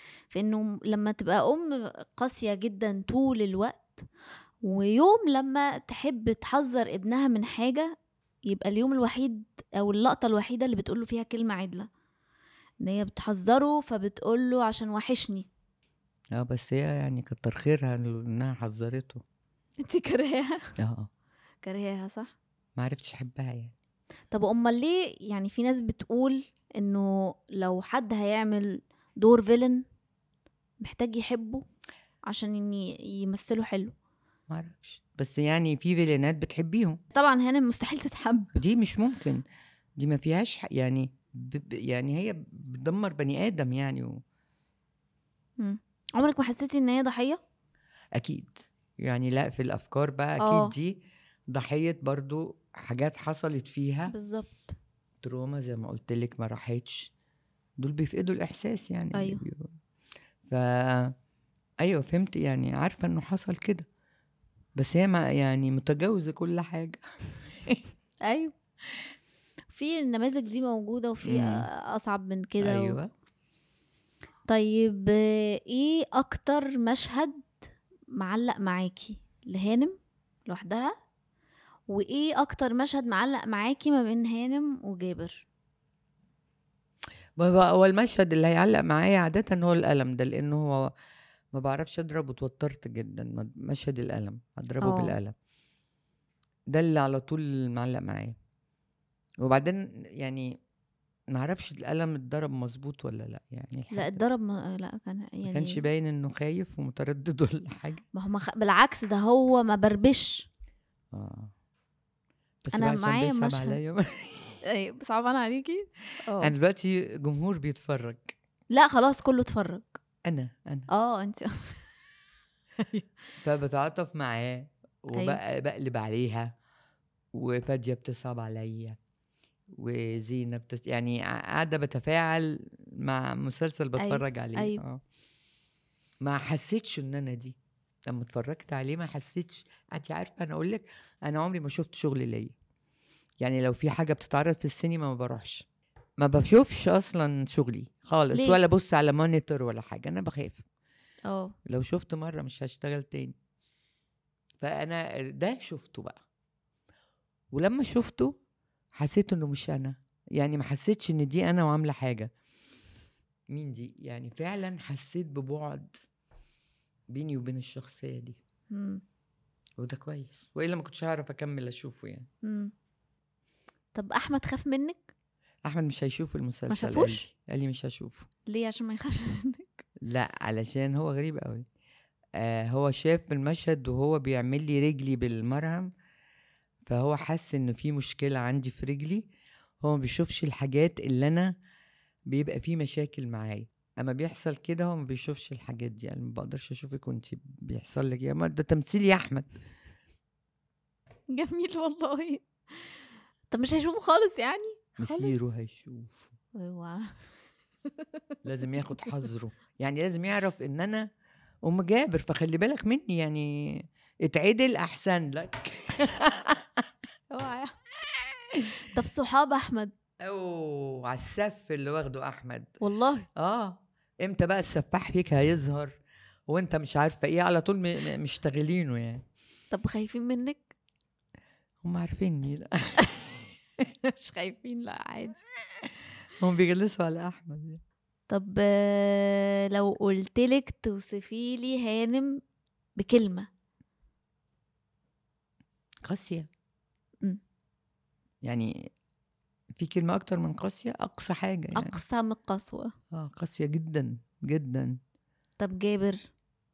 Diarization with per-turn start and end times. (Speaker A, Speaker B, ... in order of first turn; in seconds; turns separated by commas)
Speaker A: 0.3-4.0, Speaker A: 4.6-7.9, Speaker A: 8.5-11.9, Speaker A: 12.8-15.5, Speaker B: 16.3-19.2, Speaker A: 19.8-20.8, Speaker B: 20.8-21.1, Speaker A: 21.6-22.3, Speaker B: 22.8-23.8, Speaker A: 24.3-29.8, Speaker A: 30.8-31.6, Speaker A: 32.3-33.9, Speaker B: 34.5-37.0, Speaker A: 37.1-38.6, Speaker B: 38.5-39.4, Speaker B: 40.0-44.2, Speaker A: 45.6-47.4, Speaker B: 48.1-54.1, Speaker A: 50.4-50.7, Speaker A: 54.1-54.8, Speaker B: 55.2-57.1, Speaker B: 57.8-59.7, Speaker A: 59.1-59.4, Speaker B: 60.5-61.1, Speaker B: 61.8-63.9, Speaker B: 64.8-67.8, Speaker A: 68.3-68.5, Speaker A: 69.7-73.0, Speaker B: 71.2-71.7, Speaker B: 72.6-73.1, Speaker A: 74.5-77.5, Speaker A: 78.1-80.0, Speaker A: 80.5-80.9, Speaker A: 81.9-85.4, Speaker B: 87.4-90.9, Speaker B: 91.5-95.3, Speaker A: 94.8-95.2, Speaker B: 96.7-98.3, Speaker B: 99.4-100.6, Speaker B: 101.3-104.2, Speaker A: 103.9-105.8, Speaker B: 105.5-108.0, Speaker A: 108.2-110.5, Speaker B: 111.1-111.5, Speaker B: 112.6-114.6, Speaker A: 112.7-113.8, Speaker A: 114.7-116.5, Speaker B: 116.4-118.3, Speaker A: 118.7-120.0, Speaker B: 120.2-120.9, Speaker A: 120.9-121.8, Speaker B: 123.4-126.5, Speaker A: 125.1-125.4, Speaker B: 127.3-129.0, Speaker B: 129.7-135.0, Speaker A: 134.0-134.8, Speaker B: 136.2-142.6, Speaker B: 143.4-145.7, Speaker B: 146.2-150.7, Speaker A: 148.3-148.6, Speaker A: 151.3-151.5, Speaker B: 151.7-153.3, Speaker B: 154.6-156.2, Speaker B: 157.5-158.3, Speaker B: 159.0-162.3, Speaker B: 163.5-166.0, Speaker B: 167.1-168.4, Speaker A: 168.7-169.0, Speaker B: 169.8-172.3, Speaker A: 172.4-172.7, Speaker A: 173.9-175.1, Speaker B: 175.7-178.3, Speaker A: 176.7-177.2, Speaker A: 178.5-179.8, Speaker B: 180.0-181.7, Speaker B: 182.4-185.9, Speaker B: 186.9-189.3, Speaker B: 189.8-191.5, Speaker B: 192.3-199.5, Speaker A: 201.3-202.4, Speaker A: 203.5-205.3, Speaker B: 205.0-206.3, Speaker A: 206.6-207.3, Speaker B: 208.4-211.1, Speaker B: 211.6-216.9, Speaker A: 217.3-217.7, Speaker A: 218.9-219.9, Speaker B: 220.2-222.7, Speaker A: 222.8-223.3, Speaker B: 223.4-226.0, Speaker B: 226.5-229.2, Speaker A: 229.7-230.7, Speaker B: 231.8-233.5, Speaker A: 234.1-235.4, Speaker B: 236.4-237.8, Speaker A: 238.3-242.4, Speaker A: 243.0-243.5, Speaker B: 246.1-246.5, Speaker B: 248.4-248.9, Speaker B: 249.8-252.0, Speaker A: 251.8-252.9, Speaker B: 253.1-255.0, Speaker A: 255.6-256.2